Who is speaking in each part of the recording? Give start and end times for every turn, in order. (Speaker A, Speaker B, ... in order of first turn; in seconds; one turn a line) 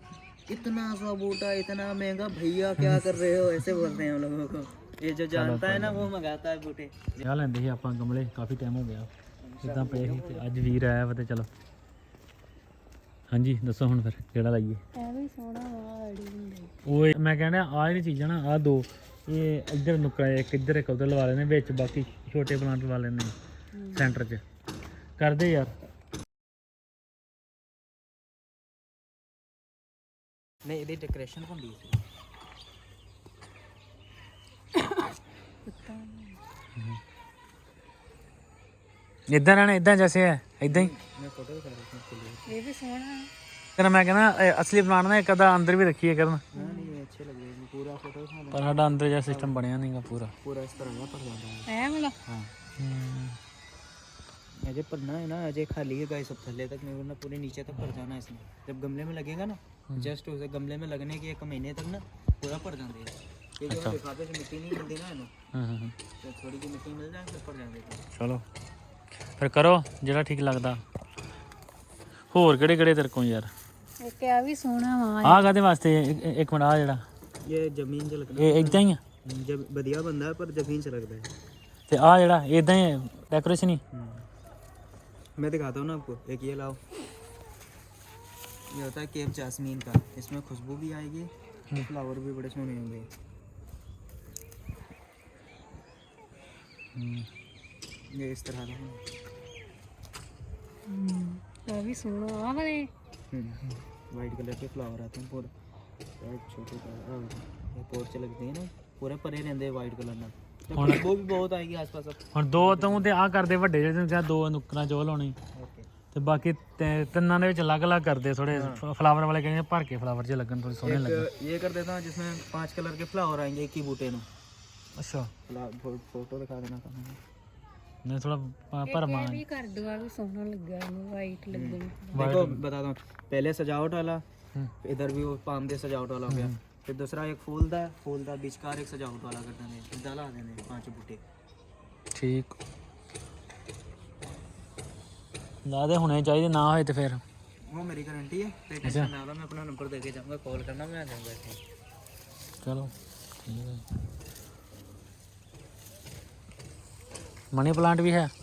Speaker A: 0.5-7.2
Speaker B: 2.8-3.7
Speaker B: 5.3-6.1
Speaker B: 7.2-9.1
Speaker A: 9.4-10.5
Speaker B: 9.6-11.5
Speaker B: 13.3-14.8
Speaker C: 14.9-16.7
Speaker B: 16.9-23.4
Speaker C: 23.7-24.2
Speaker B: 23.9-24.4
Speaker B: 25.2-25.7
Speaker A: 30.6-32.0
Speaker C: 34.8-36.4
Speaker B: 36.8-37.0
Speaker B: 39.3-40.9
Speaker A: 40.6-42.5
Speaker C: 42.5-43.3
Speaker B: 43.8-46.4
Speaker A: 46.5-48.7
Speaker C: 46.5-47.0
Speaker B: 48.5-50.3
Speaker A: 49.3-49.5
Speaker A: 50.4-51.7
Speaker C: 51.7-52.2
Speaker B: 52.3-53.4
Speaker A: 54.6-65.3
Speaker B: 63.7-64.0
Speaker B: 65.5-66.0
Speaker A: 66.2-68.0
Speaker B: 68.1-68.5
Speaker B: 69.3-70.8
Speaker B: 72.3-73.5
Speaker C: 74.0-75.5
Speaker B: 75.2-77.0
Speaker A: 77.5-81.3
Speaker B: 78.4-79.0
Speaker B: 81.9-83.8
Speaker A: 83.9-84.2
Speaker A: 85.4-86.8
Speaker A: 88.7-93.1
Speaker B: 96.9-97.3
Speaker A: 98.1-99.0
Speaker C: 100.9-102.9
Speaker A: 103.3-105.5
Speaker A: 106.2-113.1
Speaker B: 110.7-111.1
Speaker B: 112.3-115.4
Speaker A: 115.5-115.9
Speaker B: 116.1-121.3
Speaker A: 118.5-118.8
Speaker A: 120.8-124.3
Speaker B: 125.0-125.3
Speaker A: 125.5-127.2
Speaker B: 128.1-129.4
Speaker C: 128.8-132.3
Speaker A: 131.5-134.2
Speaker B: 132.1-132.6
Speaker A: 134.8-141.2
Speaker B: 136.3-136.6
Speaker B: 142.1-142.6
Speaker B: 145.7-147.2
Speaker A: 147.7-151.6
Speaker B: 148.8-149.1
Speaker B: 152.6-153.9
Speaker B: 157.5-158.3